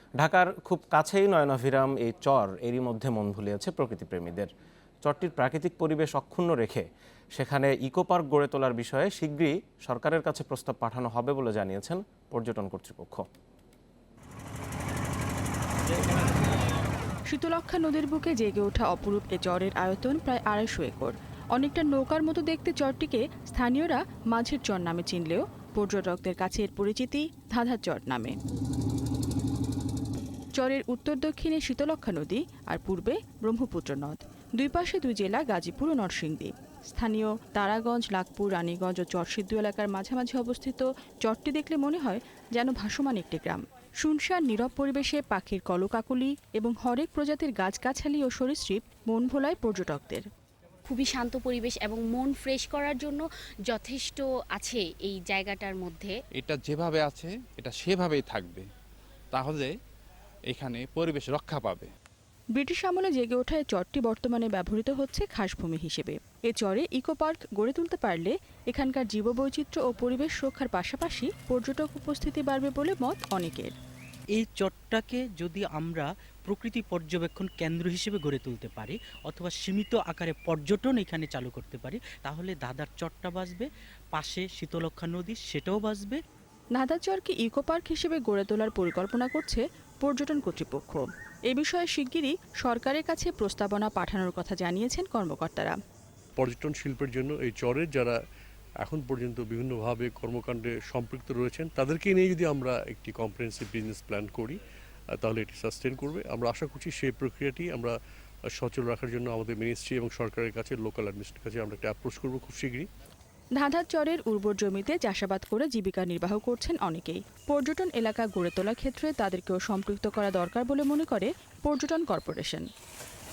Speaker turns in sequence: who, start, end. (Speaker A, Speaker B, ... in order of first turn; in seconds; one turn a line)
Speaker A: 0.2-4.5
Speaker A: 5.0-13.2
Speaker B: 17.3-28.4
Speaker B: 30.6-50.3
Speaker C: 50.9-56.1
Speaker D: 56.4-58.7
Speaker D: 59.3-59.7
Speaker D: 60.5-61.9
Speaker B: 62.5-73.8
Speaker E: 74.3-86.2
Speaker B: 86.8-95.8
Speaker F: 96.4-98.2
Speaker F: 98.8-104.6
Speaker F: 105.2-107.9
Speaker F: 108.5-112.9
Speaker B: 113.6-122.7